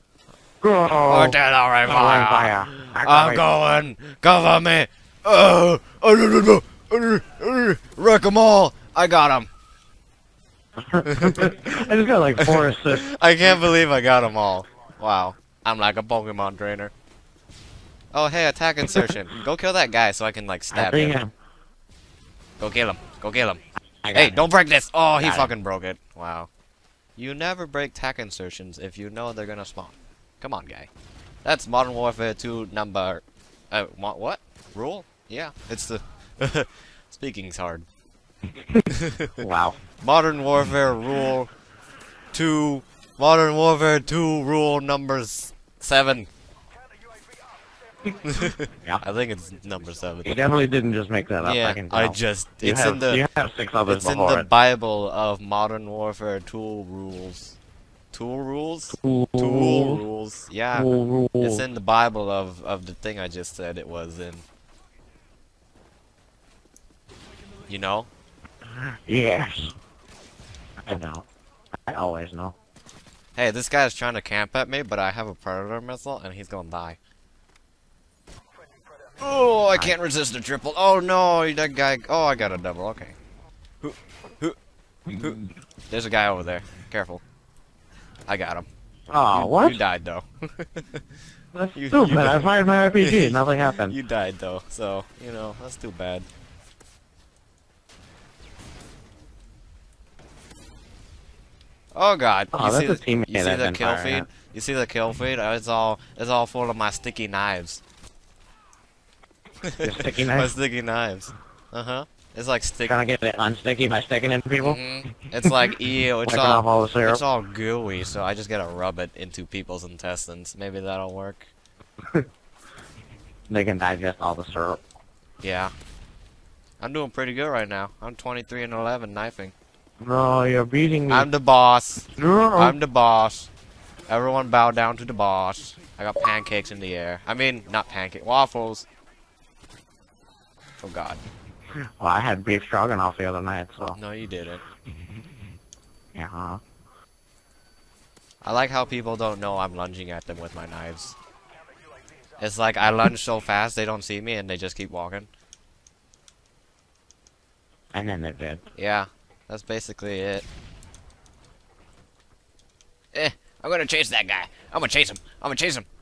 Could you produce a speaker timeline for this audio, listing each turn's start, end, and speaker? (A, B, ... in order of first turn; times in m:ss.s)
0:00.6-0:03.4 A
0:01.0-0:09.5 B
0:10.9-0:13.1 A
0:11.1-0:11.7 B
0:12.4-0:16.9 B
0:18.1-0:21.2 B
0:20.7-0:21.3 A
0:22.6-0:23.6 B
0:24.0-0:24.4 A
0:24.1-0:26.5 B
0:25.2-0:25.5 A
0:27.2-0:30.9 B
0:31.4-0:37.8 B
0:38.9-0:39.4 B
0:39.4-0:39.8 A
0:40.0-0:41.5 B
0:42.3-0:46.3 B
0:48.2-0:50.3 B
0:50.2-0:54.5 A
0:51.4-0:53.2 B
0:53.9-0:57.6 B
0:58.1-1:04.4 B
0:58.9-1:00.0 A
1:00.7-1:01.6 A
1:07.7-1:08.1 B
1:08.9-1:09.7 A
1:10.8-1:11.2 A
1:11.8-1:12.6 A
1:13.3-1:17.0 B
1:19.2-1:23.1 B
1:23.8-1:24.6 B
1:25.1-1:27.2 B
1:28.3-1:28.6 B
1:29.1-1:29.8 A
1:29.3-1:31.0 B
1:31.5-1:34.0 A
1:31.7-1:36.2 B
1:41.9-1:47.8 B
1:42.5-1:44.3 A
1:49.6-1:52.9 B
1:49.8-1:50.5 A
1:52.8-1:55.6 A
1:54.6-2:01.5 B
1:56.2-1:57.2 A
2:03.5-2:04.8 A
2:05.4-2:05.7 B
2:06.8-2:09.5 B
2:10.0-2:11.3 A
2:11.1-2:13.5 B
2:12.2-2:12.8 A
2:14.1-2:18.8 B
2:20.8-2:21.2 B
2:21.7-2:24.0 A
2:23.9-2:24.6 B
2:26.1-2:26.6 A
2:28.4-2:31.2 B
2:32.4-2:35.3 B
2:37.9-2:38.7 A
2:38.7-2:40.4 B
2:43.1-2:45.8 B